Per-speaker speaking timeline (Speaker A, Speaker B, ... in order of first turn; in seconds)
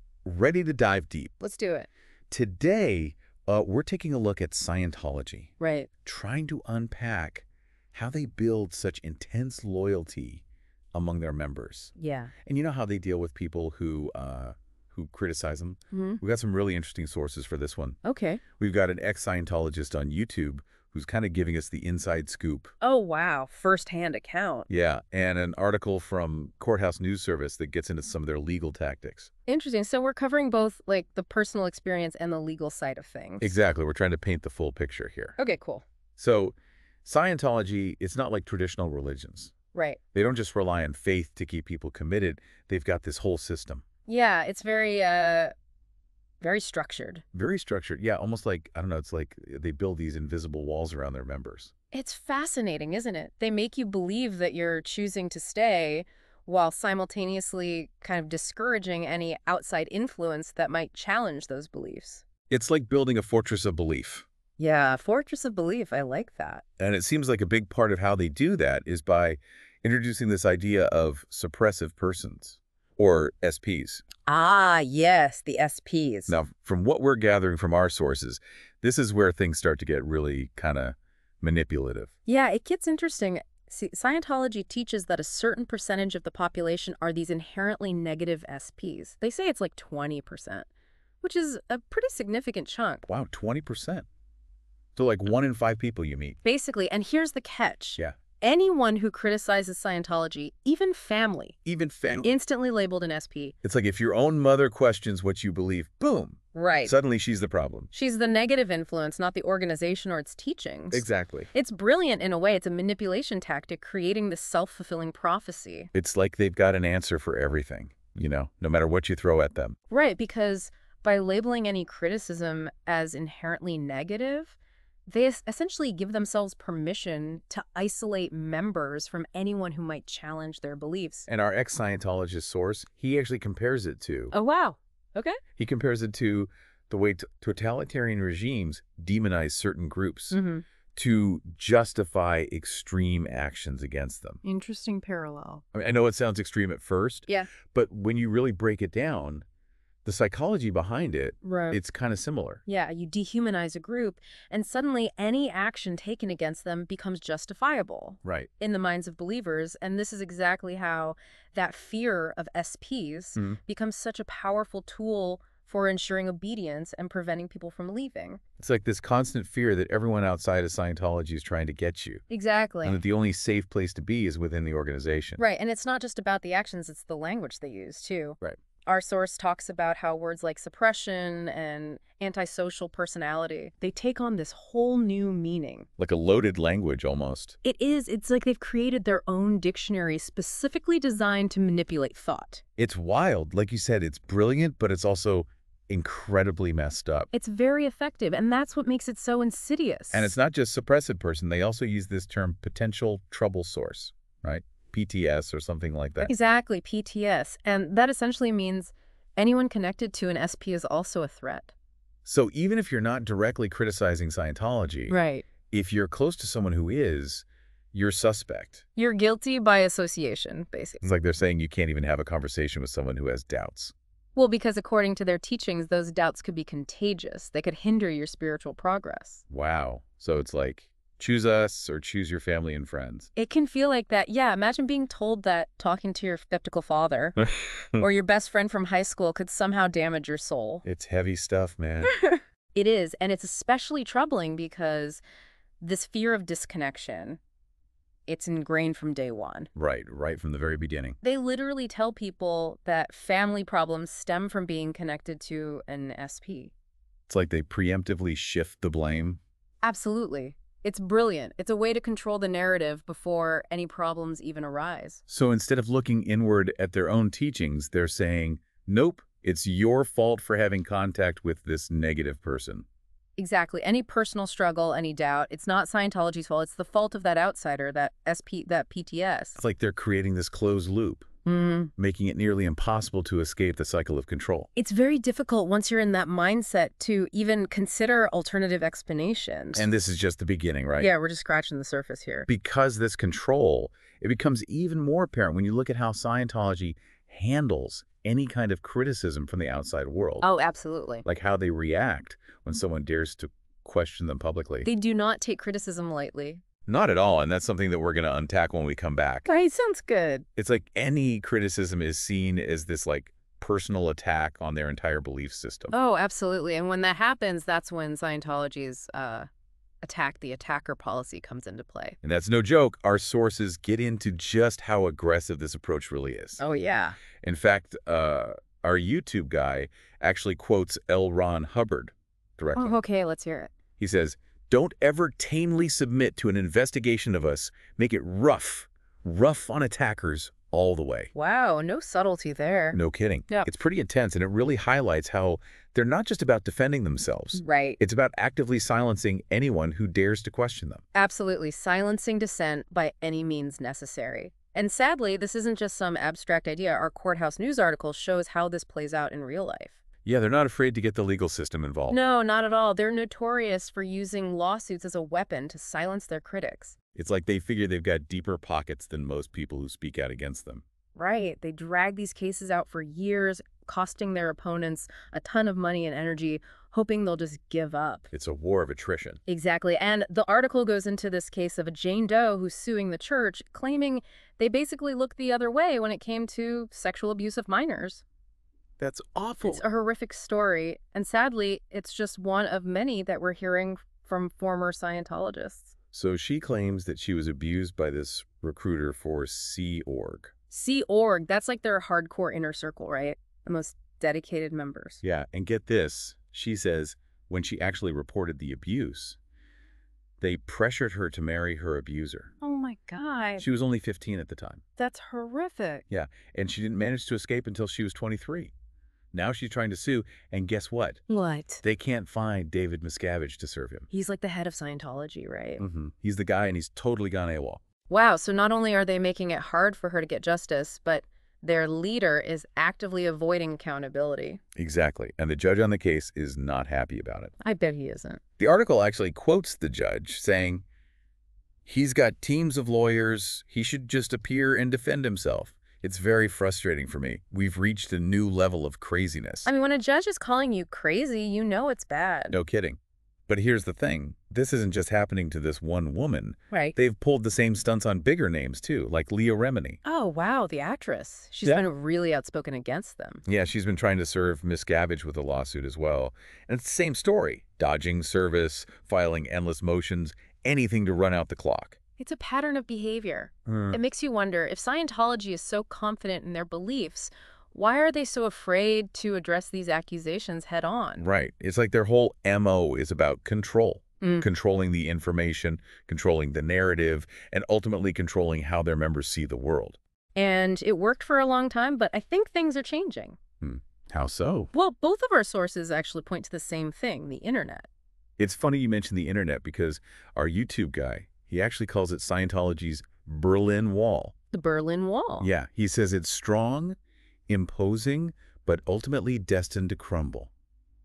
Speaker A: 0.2-1.3, 2.3-5.5, 6.0-10.4, 10.9-18.0, 18.6-22.7, 24.7-29.3, 33.4-35.4, 36.1-39.5, 40.1-43.8, 47.3-51.7, 62.5-64.2, 66.8-74.0, 76.3-82.1, 93.0-94.0, 95.0-96.4, 101.6-102.3, 103.6-107.9, 110.9-111.5, 115.9-119.8, 131.3-134.3, 135.6-140.4, 140.9-144.4, 145.7-149.4, 150.0-152.6, 158.2-158.5, 168.6-172.2, 172.8-175.4, 186.0-187.6, 192.8-197.3, 200.1-206.3, 212.2-215.2, 215.7-218.8, 221.0-223.9, 229.5-233.3, 237.4-238.0, 240.8-242.2, 249.7-251.2, 257.3-259.4, 265.3-272.9, 279.6-281.3, 282.0-284.7, 289.7-291.1, 292.5-300.4, 301.2-304.9, 306.9-309.5, 310.6-315.9, 322.2-326.6, 327.4-332.9, 334.0-341.3, 342.9-351.0, 360.2-362.2, 367.1-370.8, 378.3-379.4, 389.0-389.8, 396.1-400.5, 405.2-409.4, 410.4-412.5, 413.6-414.8, 416.1-418.7, 419.3-421.2, 421.8-424.1, 425.8-427.8, 434.8-437.5, 438.6-440.8, 441.9-449.7, 452.5-460.0, 463.4-472.0, 473.6-474.0, 481.2-490.0, 493.6-494.7, 498.4-504.3, 505.4-507.0, 507.5-510.5
Speaker B: 1.4-1.9, 5.6-5.9, 12.0-12.3, 15.9-16.2, 18.0-18.4, 22.8-24.7, 29.5-33.5, 35.4-35.8, 39.7-40.0, 44.1-45.5, 46.4-47.2, 51.9-62.2, 64.6-66.6, 74.2-76.4, 82.2-90.7, 91.2-93.0, 96.4-101.5, 102.2-103.5, 106.5-106.9, 107.9-115.9, 119.9-131.3, 134.3-135.4, 140.3-140.6, 144.4-145.6, 151.4-151.8, 152.7-168.4, 172.3-173.0, 175.4-185.9, 187.6-192.6, 197.3-200.4, 206.2-211.7, 215.1-215.5, 218.9-221.1, 224.3-229.4, 233.3-237.4, 238.0-240.8, 242.1-245.2, 245.8-247.4, 248.3-249.7, 251.2-256.7, 259.8-265.2, 273.4-279.6, 281.4-281.9, 284.8-289.9, 291.0-292.5, 300.4-301.2, 304.8-306.6, 309.5-310.5, 315.9-319.5, 320.0-322.2, 326.6-327.2, 332.7-333.7, 341.3-343.0, 347.5-348.0, 351.1-360.0, 362.1-366.9, 371.1-378.3, 379.5-388.2, 389.6-395.9, 400.7-405.2, 412.6-413.6, 415.0-416.0, 421.3-421.8, 424.1-425.8, 428.1-434.6, 437.6-438.4, 449.6-452.6, 460.0-463.4, 472.2-481.2, 484.2-484.5, 490.4-493.4, 494.7-497.9, 504.5-505.5